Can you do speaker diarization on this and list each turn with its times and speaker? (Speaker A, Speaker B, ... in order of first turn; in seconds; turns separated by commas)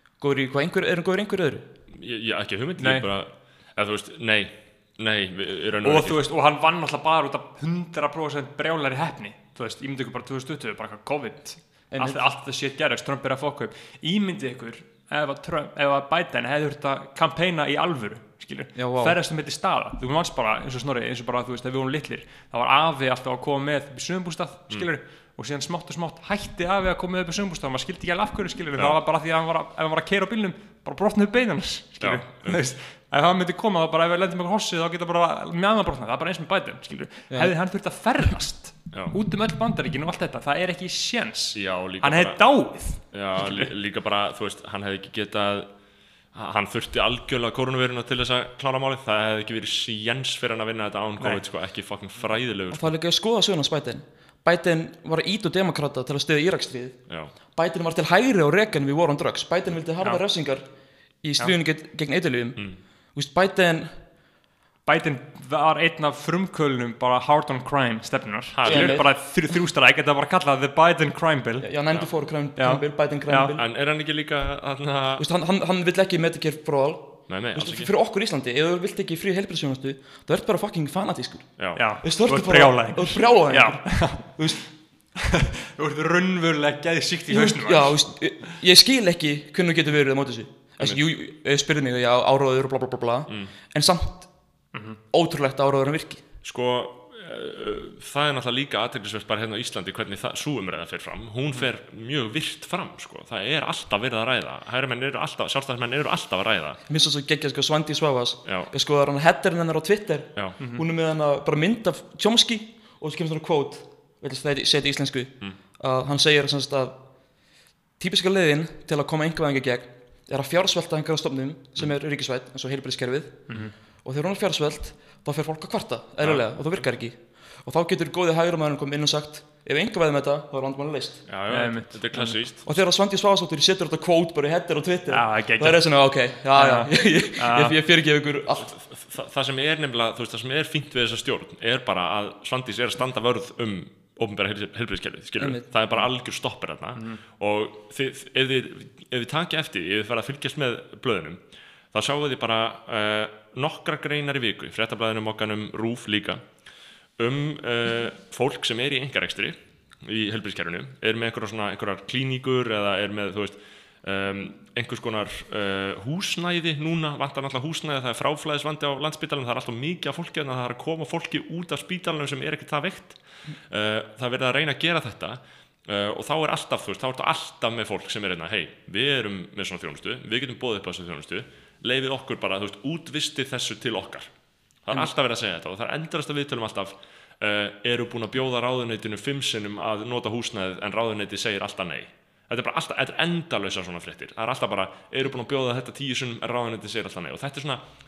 Speaker A: 0.2-1.7, Speaker B: 1.9-6.2, Speaker C: 2.8-3.1, Speaker C: 5.8-43.7, Speaker A: 11.9-12.2, Speaker A: 18.8-19.2, Speaker B: 32.0-32.7, Speaker B: 41.5-45.7, Speaker B: 46.3-53.0, Speaker C: 51.2-51.4, Speaker A: 52.7-60.7, Speaker A: 61.2-64.0, Speaker C: 64.8-71.9, Speaker B: 68.5-69.0, Speaker A: 68.7-69.2, Speaker A: 71.6-73.7, Speaker C: 72.5-73.5, Speaker B: 73.6-75.2, Speaker A: 75.2-84.6, Speaker B: 77.3-77.9, Speaker B: 81.6-81.8, Speaker C: 81.7-84.7, Speaker C: 85.4-88.0, Speaker A: 87.3-94.3, Speaker C: 94.7-95.0, Speaker A: 95.1-96.2, Speaker B: 96.4-106.8, Speaker A: 106.9-117.0, Speaker B: 108.5-108.7, Speaker C: 110.6-110.8, Speaker A: 118.0-131.2, Speaker B: 126.2-126.8, Speaker B: 131.3-132.7, Speaker C: 131.5-132.4, Speaker A: 132.7-138.7, Speaker C: 135.1-137.8, Speaker B: 138.6-156.4, Speaker A: 145.4-145.7, Speaker B: 157.2-184.3, Speaker B: 184.8-197.8